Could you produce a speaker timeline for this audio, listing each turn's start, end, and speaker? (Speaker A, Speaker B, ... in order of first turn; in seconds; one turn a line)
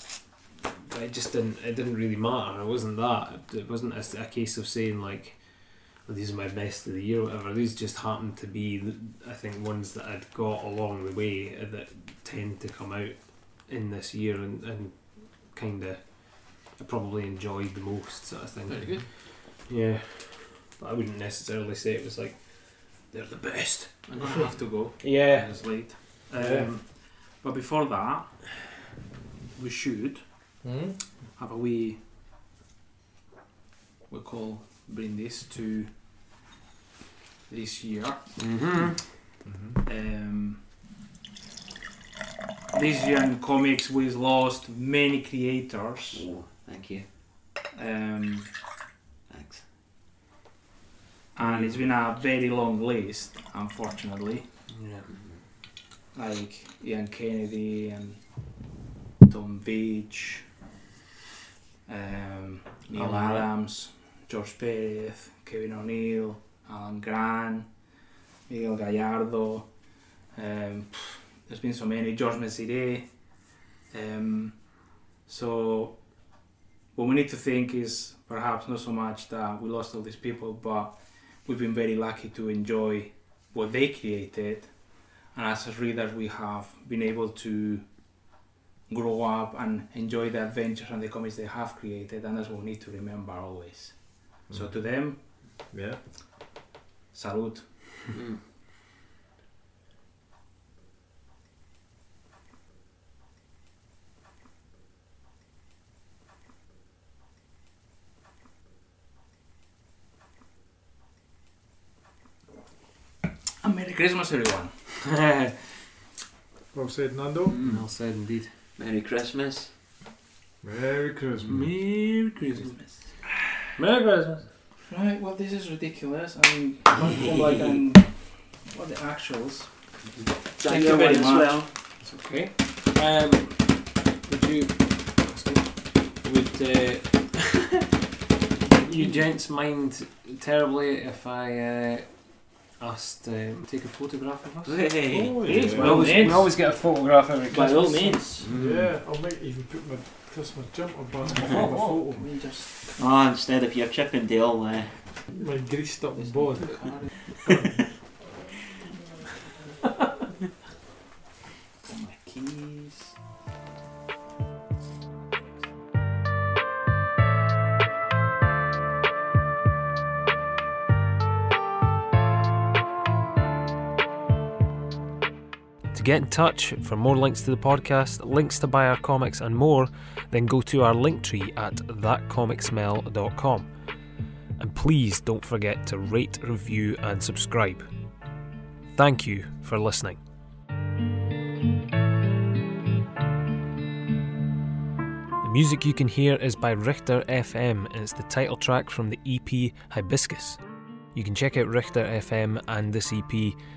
Speaker A: 0.8-25.9
Speaker B: 18.7-19.1
Speaker B: 24.1-28.7
Speaker C: 26.4-26.7
Speaker B: 29.5-30.2
Speaker C: 30.6-31.0
Speaker B: 31.3-32.0
Speaker B: 34.1-35.9
Speaker B: 37.5-38.2
Speaker A: 38.4-39.0
Speaker C: 39.4-39.8
Speaker B: 39.8-40.6
Speaker B: 42.7-46.2
Speaker D: 46.1-47.1
Speaker B: 47.7-48.6
Speaker D: 49.3-49.6
Speaker B: 51.3-54.4
Speaker A: 51.4-51.8
Speaker A: 54.7-55.1
Speaker D: 55.1-55.4
Speaker B: 56.1-58.2
Speaker B: 59.2-60.5
Speaker B: 61.9-67.7
Speaker A: 62.9-63.5
Speaker B: 68.5-69.7
Speaker B: 70.3-73.1
Speaker B: 73.9-76.0
Speaker B: 76.9-88.2
Speaker B: 88.9-95.2
Speaker C: 94.5-94.7
Speaker C: 95.7-96.0
Speaker B: 97.1-97.7
Speaker D: 98.1-98.4
Speaker B: 113.6-114.7
Speaker A: 115.0-115.7
Speaker C: 116.7-117.6
Speaker D: 117.5-117.8
Speaker A: 117.6-118.5
Speaker D: 118.8-119.7
Speaker C: 120.6-121.7
Speaker A: 121.5-122.8
Speaker B: 122.6-123.2
Speaker A: 123.8-124.5
Speaker B: 124.9-129.9
Speaker D: 130.2-131.7
Speaker B: 130.6-131.7
Speaker A: 132.0-137.8
Speaker A: 138.6-142.2
Speaker A: 142.8-148.2
Speaker D: 144.6-145.7
Speaker C: 145.1-146.3
Speaker B: 145.7-146.7
Speaker B: 147.5-148.5
Speaker D: 148.4-148.9
Speaker C: 148.5-152.3
Speaker B: 151.3-152.9
Speaker D: 152.9-155.1
Speaker C: 155.3-157.9
Speaker B: 156.8-157.1
Speaker D: 156.8-157.5
Speaker B: 161.8-163.2
Speaker A: 175.9-183.7
Speaker A: 184.6-187.9
Speaker A: 188.9-190.2
Speaker A: 195.4-200.6
Speaker A: 201.1-203.6